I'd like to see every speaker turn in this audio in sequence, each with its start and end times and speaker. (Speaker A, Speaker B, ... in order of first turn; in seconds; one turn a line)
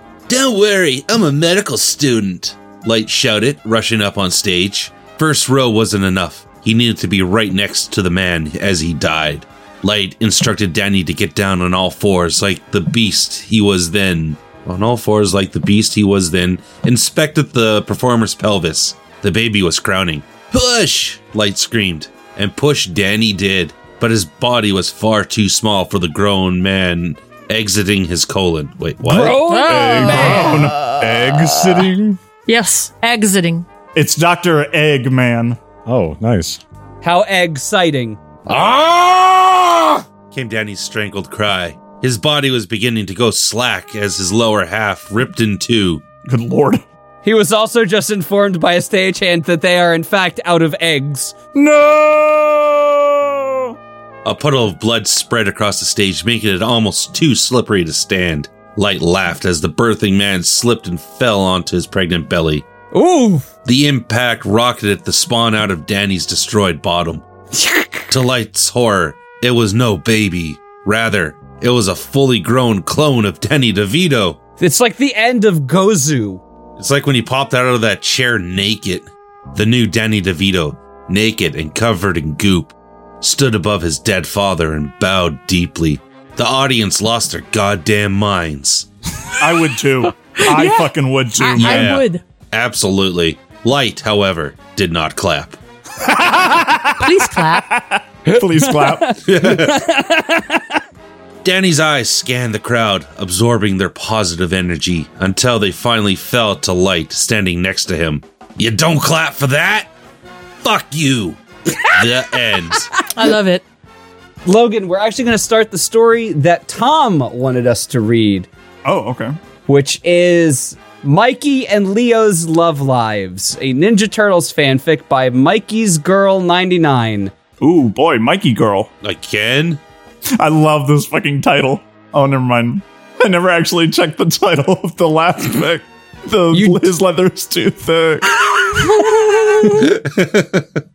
Speaker A: 0.3-29.4
Speaker B: 29.0-30.6
Speaker C: 29.4-31.0
Speaker D: 29.6-32.2
Speaker C: 32.5-33.7
Speaker E: 34.0-35.6
Speaker D: 35.9-36.6
Speaker B: 37.0-38.2
Speaker A: 38.5-46.0
Speaker E: 46.2-46.8
Speaker B: 47.2-51.4
Speaker E: 51.5-53.7
Speaker A: 54.2-62.7
Speaker B: 62.9-63.5
Speaker A: 63.6-67.2
Speaker B: 67.6-68.1
Speaker A: 68.1-74.4
Speaker B: 74.6-76.4
Speaker A: 76.8-88.9
Speaker E: 89.4-91.9
Speaker C: 90.4-92.2
Speaker A: 91.6-95.6
Speaker E: 96.0-99.1
Speaker C: 97.0-97.7
Speaker B: 98.3-100.8
Speaker A: 99.3-99.8
Speaker A: 101.4-109.9
Speaker A: 110.6-111.4
Speaker A: 111.9-112.9
Speaker C: 113.1-113.6
Speaker B: 114.5-118.5
Speaker E: 118.8-119.3
Speaker B: 119.7-127.3
Speaker E: 127.6-128.9
Speaker A: 129.0-129.8
Speaker E: 130.4-138.4
Speaker B: 136.5-136.9
Speaker A: 139.8-140.7